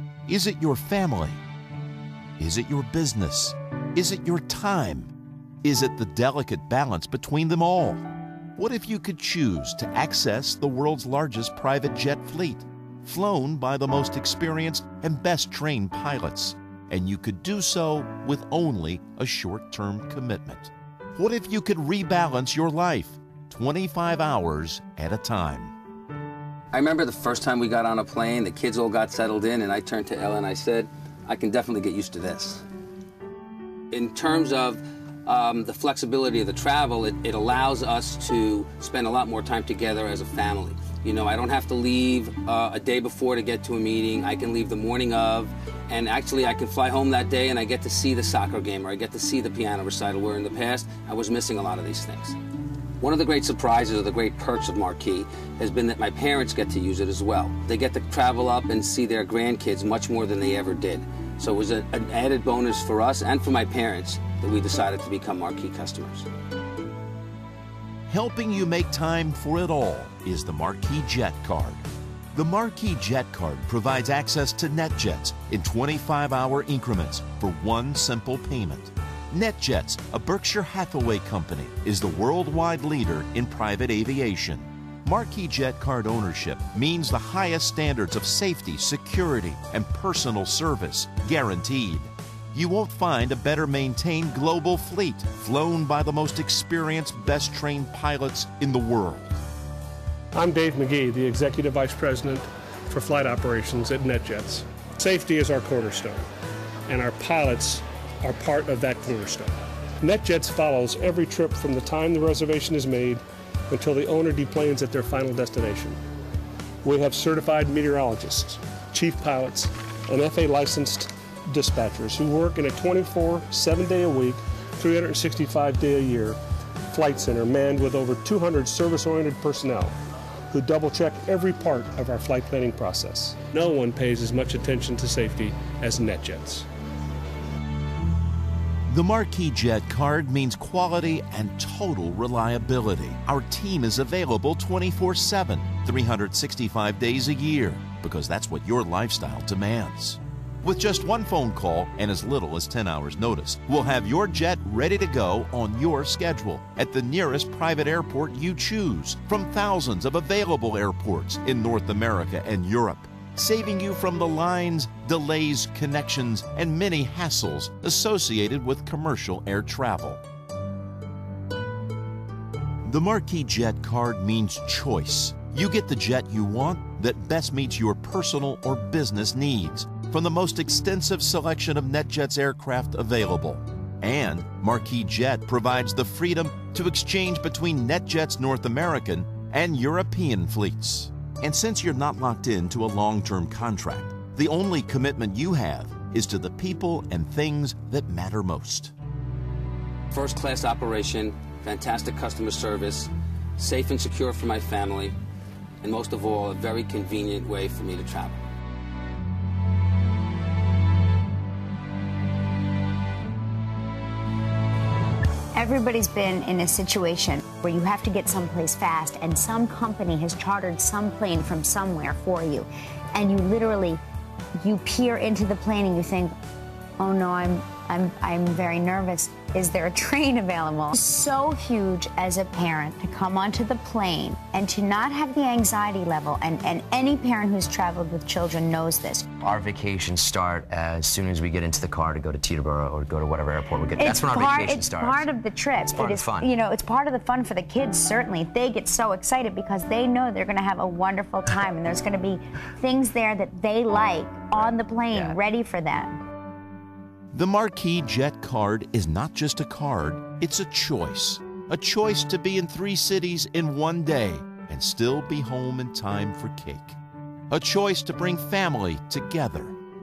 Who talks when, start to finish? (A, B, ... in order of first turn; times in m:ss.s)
0:00.3-0:01.4 A
0:02.4-0:05.1 A
0:05.6-0:08.0 A
0:08.6-0:25.7 A
0:26.7-0:32.6 B
0:33.9-0:52.4 B
0:53.0-1:06.3 B
1:08.1-1:39.4 A
1:40.3-1:46.3 C
1:46.9-1:56.0 C
1:56.8-2:09.9 C
2:10.5-2:16.7 C
2:18.9-2:50.2 A
2:52.8-3:18.9 A
3:20.1-3:25.1 B
3:25.8-3:28.4 B
3:35.5-3:44.0 D
3:44.6-3:46.3 D
3:47.0-3:59.4 D
3:59.4-4:05.3 E
4:04.0-4:16.2 D
4:05.9-4:06.5 E
4:15.1-4:15.4 E
4:17.3-4:27.0 A
4:27.5-4:29.8 A